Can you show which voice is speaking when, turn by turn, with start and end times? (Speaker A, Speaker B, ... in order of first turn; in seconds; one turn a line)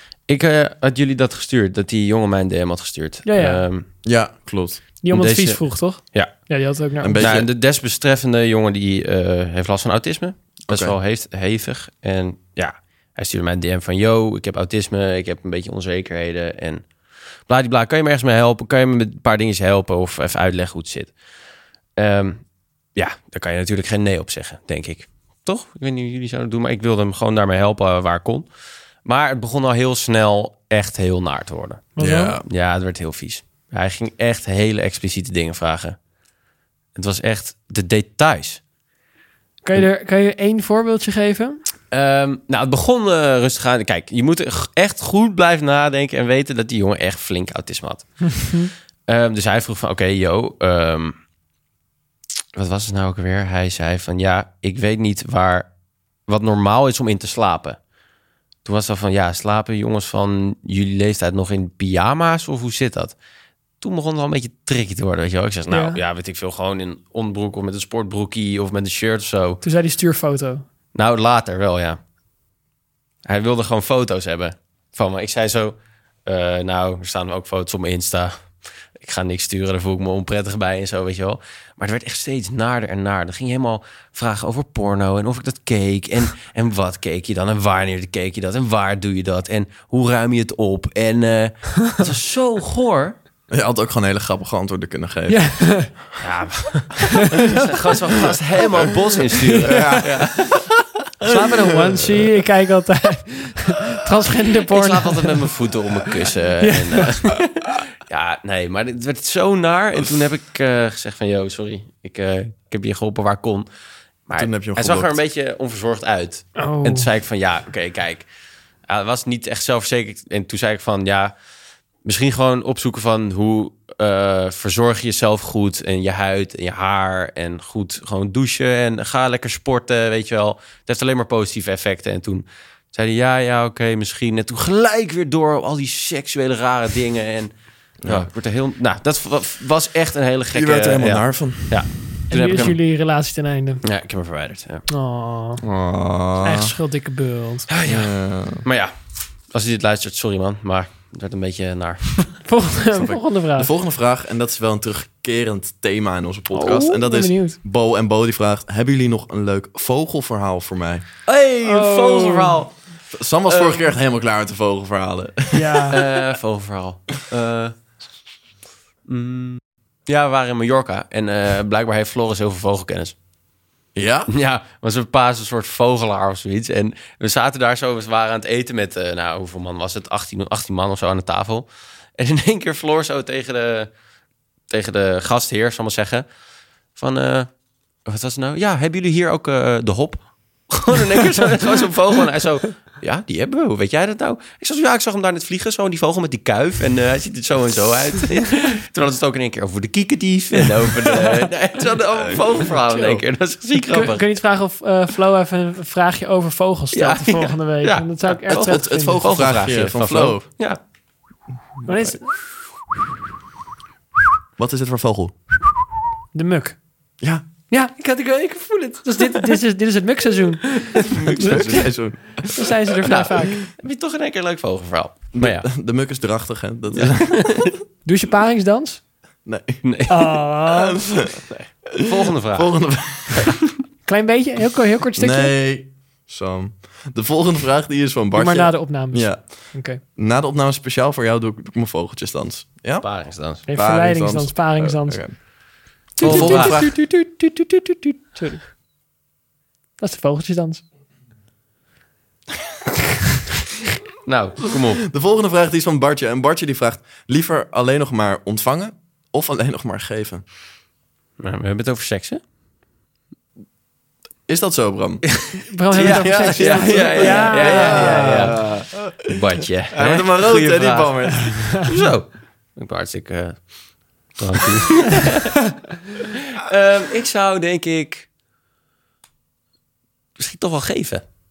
Speaker A: 0.3-3.9
Speaker B: 3.2-3.6
Speaker C: 4.0-4.8
Speaker B: 5.0-7.2
Speaker A: 5.1-6.5
Speaker C: 7.0-7.5
Speaker A: 7.2-16.9
Speaker C: 10.7-10.9
Speaker A: 17.5-21.1
Speaker A: 22.0-22.4
Speaker A: 22.9-28.5
Speaker A: 29.0-31.9
Speaker B: 31.9-32.4
Speaker C: 32.0-32.4
Speaker A: 32.5-36.0
Speaker A: 36.9-38.6
Speaker B: 39.6-41.6
Speaker A: 41.9-48.5
Speaker B: 48.4-48.7
Speaker A: 49.1-51.1
Speaker A: 52.5-55.7
Speaker A: 56.3-57.8
Speaker A: 58.6-63.1
Speaker A: 63.8-69.6
Speaker B: 65.7-66.0
Speaker B: 69.6-70.6
Speaker A: 70.9-72.0
Speaker A: 73.2-93.1
Speaker C: 93.5-96.0
Speaker B: 95.3-95.9
Speaker A: 96.2-100.6
Speaker C: 99.7-100.3
Speaker B: 101.2-105.4
Speaker A: 104.7-113.7
Speaker B: 106.6-107.2
Speaker A: 114.3-118.2
Speaker C: 114.4-115.2
Speaker B: 116.6-117.1
Speaker A: 118.9-121.3
Speaker A: 122.0-137.5
Speaker C: 138.0-138.3
Speaker A: 138.0-142.8
Speaker C: 140.5-141.9
Speaker B: 142.3-143.8
Speaker A: 143.8-144.8
Speaker B: 144.9-145.6
Speaker C: 145.6-146.7
Speaker B: 146.4-147.7
Speaker A: 147.7-148.9
Speaker C: 147.8-148.6
Speaker A: 149.5-152.3
Speaker B: 152.4-153.7
Speaker C: 152.9-161.1
Speaker B: 156.5-157.6
Speaker A: 161.2-162.7
Speaker B: 161.6-162.6
Speaker C: 163.1-166.2
Speaker A: 163.5-163.9
Speaker B: 165.5-165.9
Speaker A: 165.9-167.7
Speaker A: 169.1-173.1
Speaker C: 173.9-174.3
Speaker A: 174.3-181.7
Speaker A: 182.2-183.9
Speaker A: 184.7-186.2
Speaker A: 186.9-187.5
Speaker A: 188.0-204.3
Speaker B: 202.9-203.2
Speaker B: 203.8-209.2
Speaker A: 206.9-210.8
Speaker C: 208.5-210.4
Speaker B: 211.8-212.3
Speaker C: 214.6-215.4
Speaker B: 216.3-216.8
Speaker B: 217.7-221.6
Speaker A: 221.1-221.8
Speaker C: 221.2-222.7
Speaker B: 222.5-223.7
Speaker A: 223.0-225.7
Speaker C: 225.3-227.7
Speaker A: 226.9-227.7
Speaker B: 228.0-229.0
Speaker C: 229.4-229.8
Speaker A: 229.8-230.3
Speaker B: 230.1-231.0
Speaker C: 230.7-233.5
Speaker A: 232.0-233.0
Speaker B: 234.1-235.5
Speaker C: 235.2-245.4
Speaker B: 238.3-240.0
Speaker A: 243.0-243.6
Speaker B: 243.7-245.2
Speaker B: 246.2-248.6
Speaker C: 246.2-247.0
Speaker A: 246.2-247.0
Speaker B: 250.0-250.8
Speaker A: 254.2-255.1
Speaker C: 255.1-260.4
Speaker A: 261.4-262.4
Speaker C: 264.5-268.9
Speaker A: 265.3-275.6
Speaker B: 265.7-268.4
Speaker C: 269.9-271.9
Speaker A: 276.5-278.3
Speaker A: 280.4-281.2